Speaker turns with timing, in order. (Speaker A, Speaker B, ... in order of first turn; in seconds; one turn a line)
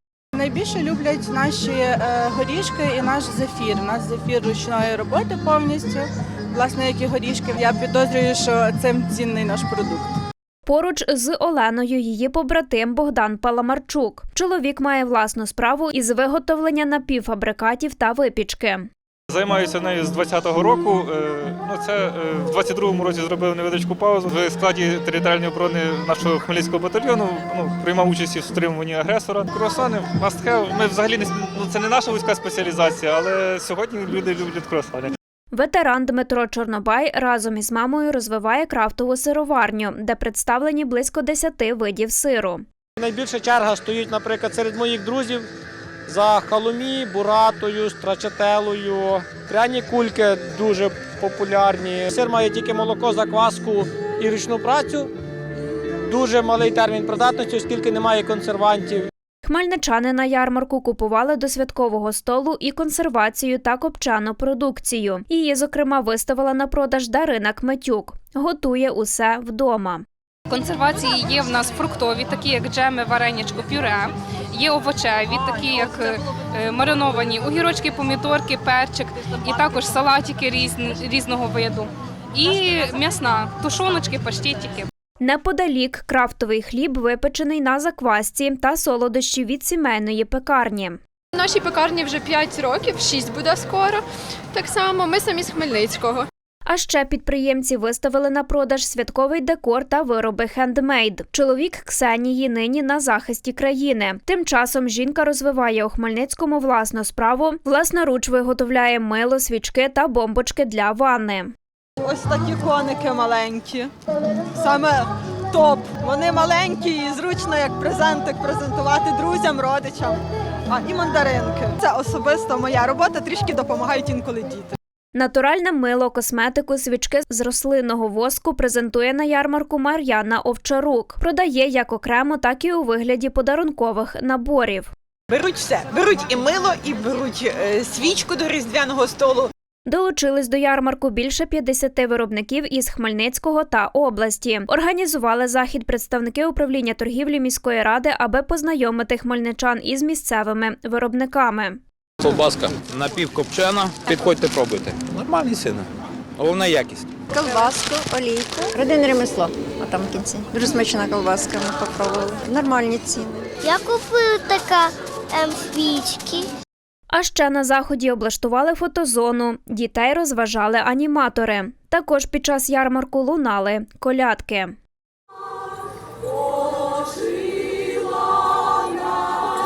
Speaker A: 0.3-10.1
Speaker B: 10.7-18.9
Speaker C: 19.3-35.1
Speaker B: 35.5-42.6
Speaker D: 43.0-45.5
Speaker D: 46.1-55.1
Speaker D: 56.1-59.1
Speaker B: 59.4-70.0
Speaker E: 70.5-84.9
Speaker B: 85.2-91.0
Speaker F: 91.3-96.3
Speaker B: 96.7-111.5
Speaker G: 112.0-113.9
Speaker G: 114.6-124.8
Speaker B: 125.2-134.9
Speaker H: 135.3-139.5
Speaker B: 139.9-151.8
Speaker I: 152.2-155.9
Speaker I: 156.4-157.1
Speaker J: 157.3-163.4
Speaker K: 163.6-166.5
Speaker B: 167.1-174.7